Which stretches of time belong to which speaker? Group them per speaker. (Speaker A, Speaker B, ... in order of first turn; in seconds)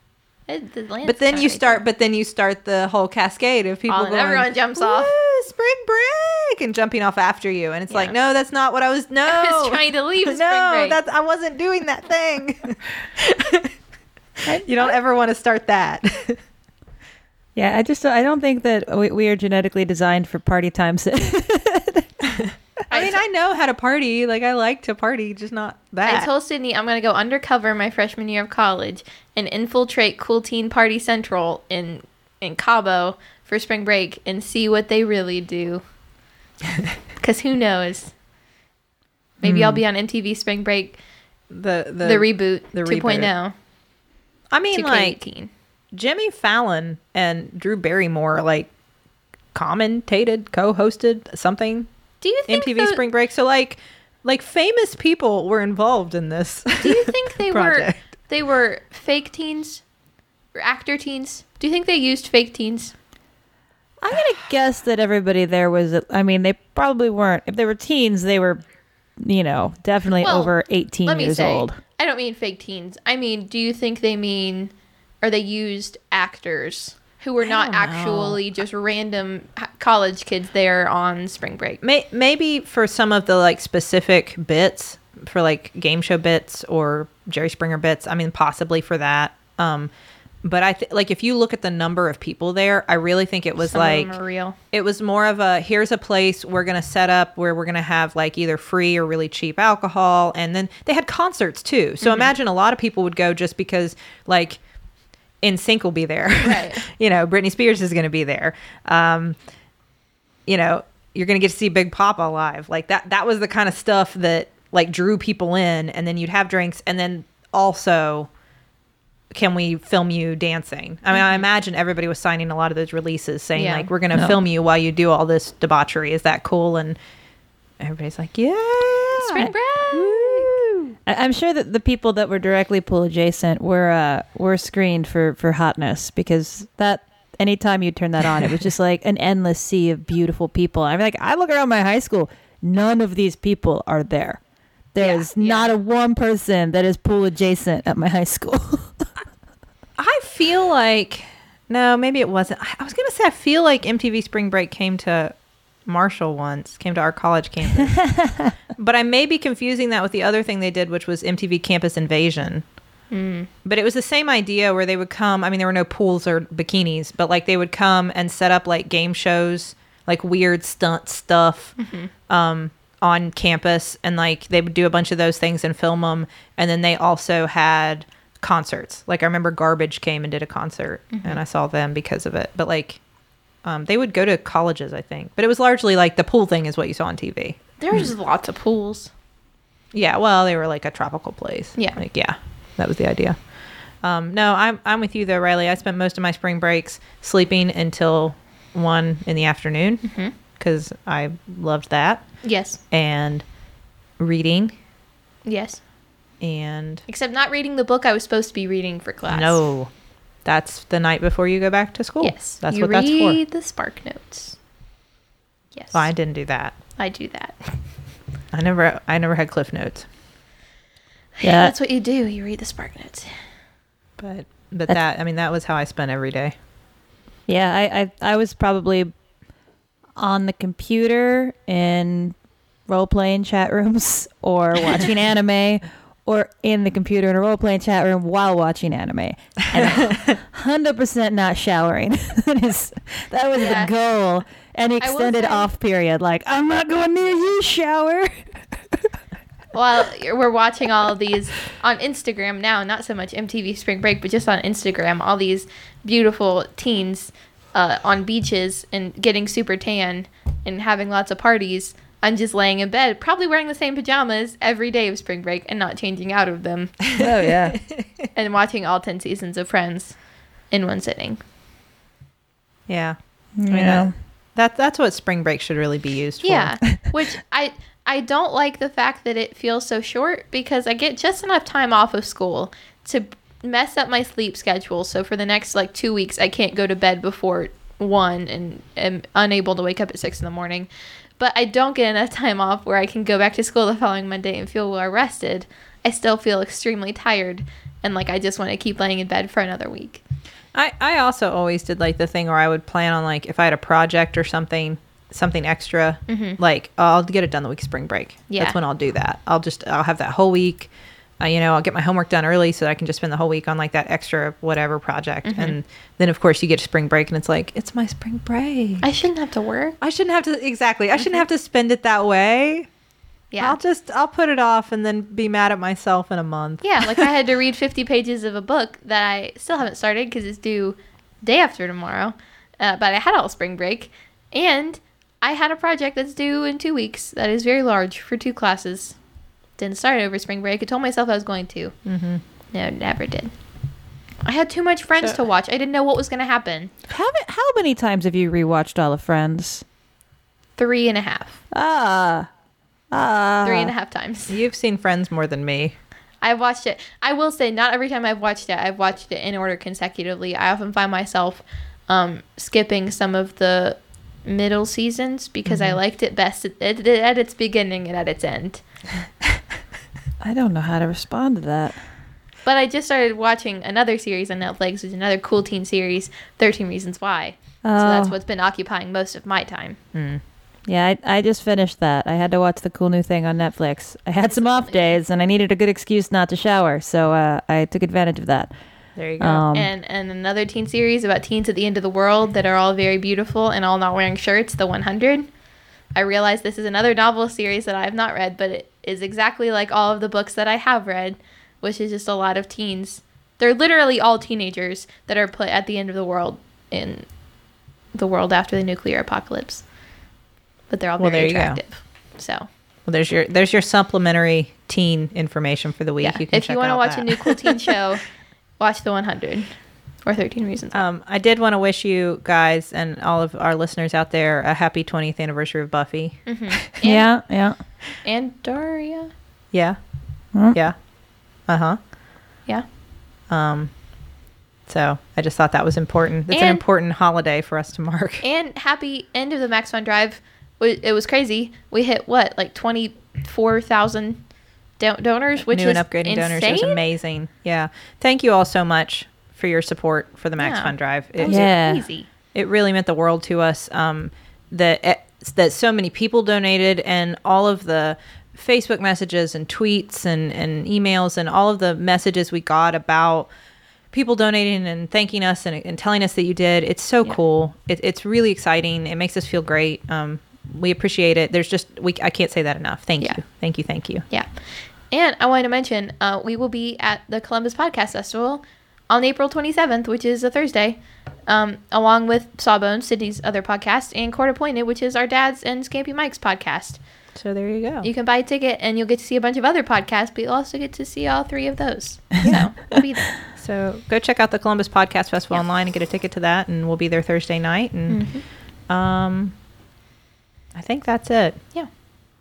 Speaker A: 0.5-1.8, 3.9-5.1, 7.9-8.2, 9.3-11.0, 22.9-23.2, 26.1-35.8, 37.2-38.1, 39.4-41.0, 42.0-43.5, 44.7-45.5, 52.2-53.0, 56.8-59.8, 60.5-62.9, 70.2-70.5, 71.0-74.7, 75.2-81.8, 93.6-94.6, 102.0-102.3, 106.4-106.8, 121.1-121.4, 123.6-123.9, 129.2-130.5, 145.0-145.7, 163.1-163.5, 171.8-172.1, 181.1-181.4, 187.8-189.1, 200.0-200.3, 202.4-202.8, 205.5-205.8, 207.1-209.6, 212.2-214.6, 215.8-216.1, 217.0-217.6, 221.4-223.3, 243.6-243.9, 245.0-245.7, 249.7-267.0, 268.4-270.1, 270.7-271.4, 276.4-290.9, 291.4-300.2, 306.3-306.6, 308.5-308.8, 315.4-315.8, 319.0-320.0, 323.5-323.8, 326.8-339.2, 339.8-341.9, 342.7-343.5, 344.4-346.9, 350.8-351.6, 353.6-354.6, 356.4-368.8, 372.6-380.0, 384.4-385.2, 389.7-395.5, 396.1-407.3, 408.1-409.9, 410.9-412.7, 416.2-418.2, 418.8-419.7, 420.2-421.0, 426.5-427.3, 428.2-429.3, 436.5-436.8, 438.4-444.4, 445.0-447.0, 450.6-452.3, 475.1-487.0, 488.0-493.3, 498.1-498.4
Speaker B: 1.1-13.7, 14.6-16.4, 22.9-26.3, 39.5-39.7, 41.5-43.3, 44.5-45.2, 45.9-48.7, 49.5-51.9, 52.5-58.0, 77.4-78.4, 81.8-89.9, 90.4-94.2, 94.7-104.6, 105.4-109.4, 110.5-118.3, 119.3-127.0, 127.8-129.5, 150.0-155.3, 155.9-158.0, 158.8-162.6, 163.7-171.8, 172.3-183.0, 183.7-187.6, 189.9-193.4, 194.0-202.2, 202.9-203.4, 204.2-204.7, 206.4-207.0, 209.3-209.9, 210.4-213.4, 215.9-216.8, 218.5-220.1, 224.2-226.5, 267.1-268.0, 272.9-273.2, 273.7-276.8, 300.8-310.9, 311.4-319.2, 320.0-322.9, 323.6-327.3, 342.1-342.4, 354.5-356.0, 365.7-366.0, 380.1-380.4, 389.2-389.6, 411.2-411.8, 413.1-418.0, 420.9-426.8, 429.7-430.0, 430.7-430.9, 431.7-432.0, 433.5-433.9, 434.9-438.4, 445.6-451.7, 452.5-463.5, 464.1-474.2, 487.4-488.1, 493.4-498.4, 498.9-499.5, 500.7-501.6
Speaker C: 17.6-22.3, 64.0-68.6, 69.2-71.8, 129.4-130.5, 131.1-144.4, 144.9-149.1, 158.0-158.5, 221.4-221.7, 227.5-229.1, 230.2-232.4, 232.9-249.0, 267.2-267.8, 273.6-274.1, 347.1-349.8, 351.7-352.5, 353.1-353.9, 370.4-372.0, 377.8-378.4, 380.9-388.7, 389.4-389.9, 427.0-427.8, 451.4-452.0